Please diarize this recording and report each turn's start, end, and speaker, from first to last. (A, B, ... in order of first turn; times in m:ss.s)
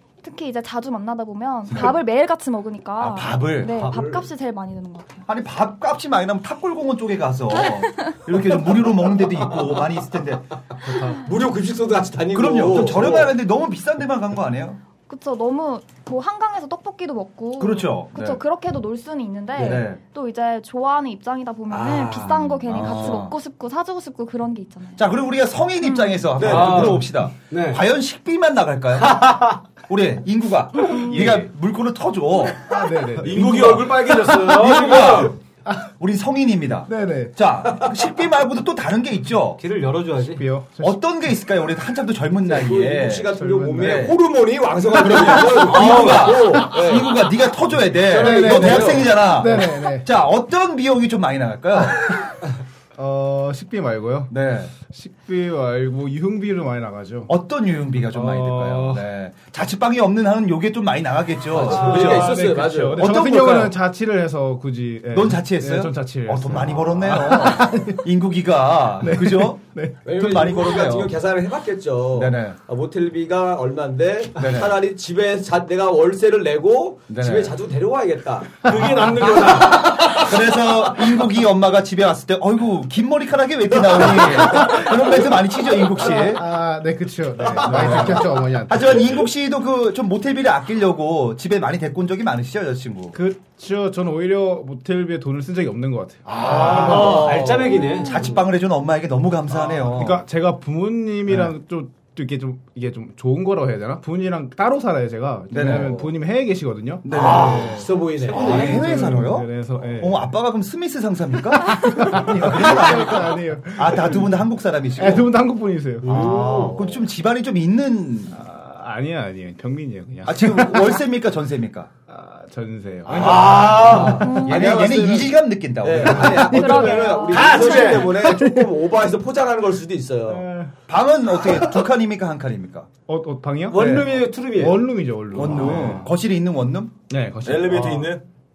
0:00.2-0:05.2 A
0:01.7-0:02.0 B
0:03.0-0:03.9 B
0:03.7-0:04.1 C
0:05.3-0:11.1 B
0:07.8-0:08.1 A
0:10.9-0:13.3 D
0:12.3-0:14.8 B
0:15.1-0:25.0 A
0:17.6-0:18.4 B
0:19.6-0:20.0 B
0:21.7-0:23.0 D
0:22.2-0:23.4 B
0:25.0-0:32.8 B
0:25.8-0:26.3 A
0:26.4-0:27.0 D
0:26.4-0:27.8 C
0:29.0-0:29.6 C
0:31.1-0:31.4 C
0:32.7-0:34.0 E
0:33.2-0:35.3 F
0:33.3-0:33.9 B
0:34.4-0:35.4 B
0:36.0-0:39.6 B
0:36.9-0:37.3 E
0:39.6-0:40.4 C
0:40.3-0:41.0 E
0:40.8-0:44.2 B
0:42.4-0:47.2 D
0:43.3-0:44.2 E
0:44.9-0:52.2 B
0:45.1-0:46.8 E
0:48.0-0:49.3 D
0:48.1-0:50.0 E
0:53.0-0:57.3 E
0:54.3-0:54.7 B
0:57.3-1:02.4 B
0:58.1-0:59.0 E
1:01.5-1:03.2 D
1:01.8-1:08.0 E
1:03.0-1:03.7 B
1:05.1-1:11.1 B
1:09.0-1:10.0 E
1:10.0-1:20.4 D
1:12.1-1:12.6 B
1:14.4-1:14.8 B
1:17.1-1:17.5 B
1:18.7-1:19.0 E
1:18.7-1:19.9 F
1:19.7-1:26.4 B
1:23.8-1:25.3 D
1:26.0-1:29.2 E
1:27.4-1:28.4 D
1:27.7-1:33.2 B
1:33.1-1:37.2 E
1:36.2-1:37.5 B
1:36.4-1:38.3 D
1:36.4-1:38.3 C
1:38.0-1:40.2 B
1:39.8-1:50.2 E
1:45.5-1:46.0 B
1:45.6-1:46.1 D
1:47.0-1:55.3 B
1:47.1-1:49.1 D
1:51.6-1:54.3 E
1:55.0-1:56.4 E
1:56.0-1:57.1 D
1:56.0-1:58.3 B
1:56.1-1:56.5 C
1:58.3-2:01.0 E
2:00.2-2:01.9 B
2:02.1-2:05.3 E
2:03.0-2:05.1 D
2:04.0-2:06.7 B
2:04.2-2:04.6 A
2:05.8-2:10.5 D
2:06.1-2:07.2 E
2:06.4-2:08.1 A
2:07.2-2:08.2 F
2:08.2-2:08.7 E
2:10.3-2:10.7 E
2:10.9-2:12.9 B
2:13.1-2:16.1 E
2:13.7-2:15.0 C
2:13.7-2:14.1 B
2:15.3-2:17.0 B
2:17.1-2:18.1 E
2:17.4-2:18.2 F